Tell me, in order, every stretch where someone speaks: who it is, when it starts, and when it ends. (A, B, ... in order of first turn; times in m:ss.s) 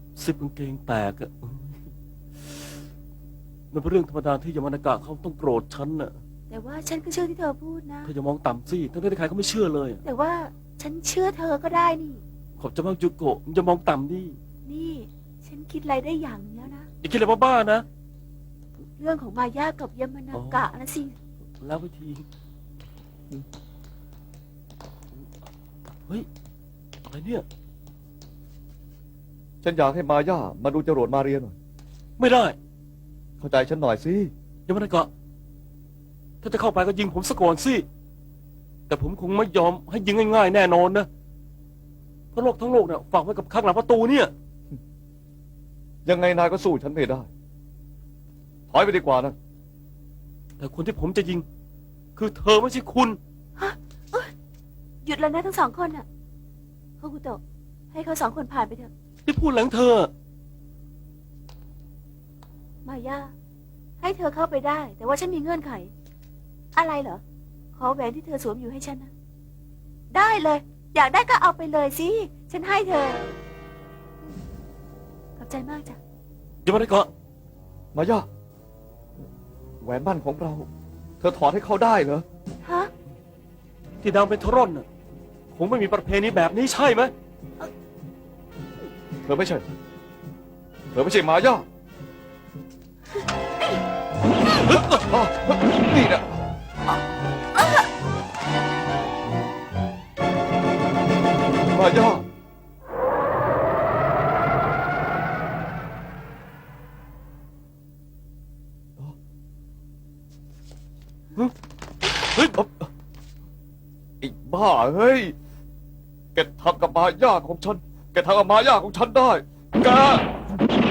0:00.2-0:02.7 A
0:03.7-0:06.2 A
0:06.5-0:08.1 B
0:08.0-0:10.0 A
0:10.0-0:12.2 B
0:12.6-0:14.4 A
0:14.6-0:16.9 B
0:17.0-0:17.8 A
0:19.0-0:21.1 B
0:20.3-0:20.7 A
0:21.6-0:22.2 A
0:27.1-0:27.4 A
0:29.6-0:31.6 C
0:32.2-0:32.6 A
0:33.4-0:34.3 C
0:34.7-0:35.1 A
0:36.4-0:37.8 A
0:38.9-0:41.1 A
0:42.3-0:44.3 A
0:46.0-0:47.3 C
0:48.7-0:49.4 C
0:50.6-0:51.4 A
0:52.2-0:53.2 A
0:53.6-0:54.3 B
0:55.0-0:56.0 B
0:57.0-0:58.9 B
0:59.2-1:00.1 A
1:02.8-1:03.3 B
1:04.0-1:05.9 B
1:06.7-1:07.2 B
1:07.7-1:09.1 B
1:10.1-1:13.2 B
1:15.4-1:16.0 B
1:16.6-1:17.1 A
1:17.9-1:18.3 C
1:19.8-1:20.7 C
1:21.2-1:22.2 C
1:22.6-1:22.9 B
1:24.0-1:24.8 A
1:25.5-1:27.1 A
1:29.2-1:29.6 C
1:30.9-1:31.6 C
1:33.1-1:33.8 B
1:34.6-1:35.0 A
1:34.8-1:36.4 C
1:37.5-1:37.9 B
1:41.7-1:42.2 C
1:52.5-1:52.9 C
1:54.2-1:55.3 C
1:56.3-2:00.3 C